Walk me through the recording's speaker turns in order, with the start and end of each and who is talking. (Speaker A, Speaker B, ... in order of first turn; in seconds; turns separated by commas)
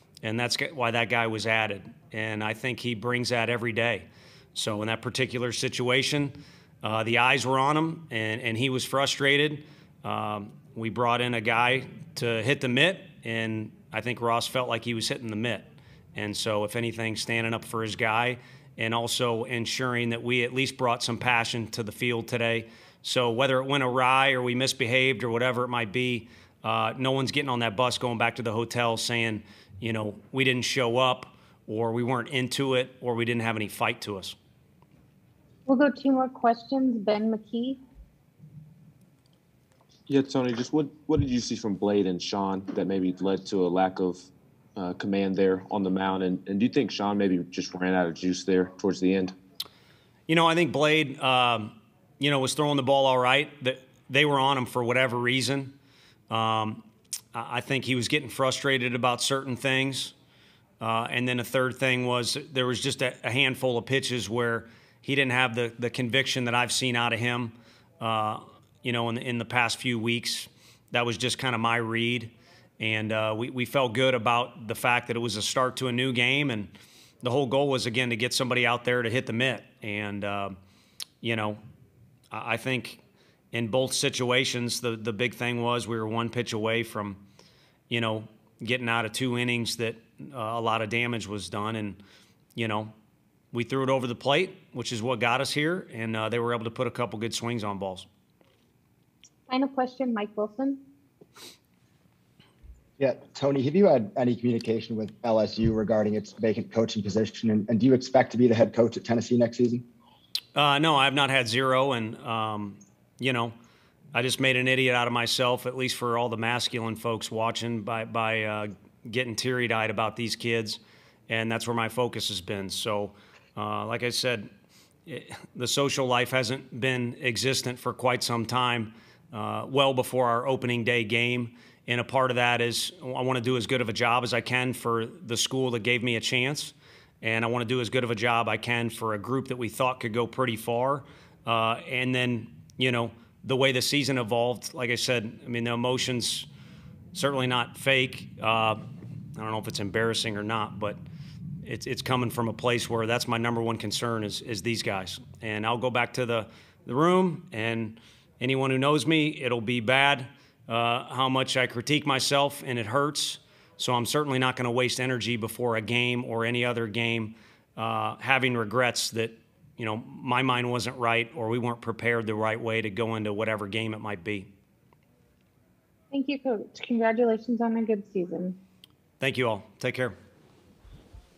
Speaker A: 0.2-34.4, Speaker B: 35.6-37.8, Speaker C: 40.2-44.1, Speaker C: 45.0-49.2, Speaker A: 50.3-55.8, Speaker A: 56.3-60.1, Speaker A: 60.8-76.7, Speaker A: 77.2-80.6, Speaker A: 81.2-81.6, Speaker A: 82.3-83.0, Speaker A: 83.5-87.2, Speaker A: 87.9-92.0, Speaker A: 92.5-92.9, Speaker A: 93.5-98.1, Speaker B: 99.5-100.8, Speaker D: 103.0-109.8, Speaker A: 110.5-113.5, Speaker A: 114.1-124.5, Speaker A: 125.1-146.5, Speaker A: 147.1-148.8, Speaker A: 149.3-151.0, Speaker A: 151.6-174.5, Speaker B: 176.1-178.6, Speaker A: 179.2-180.1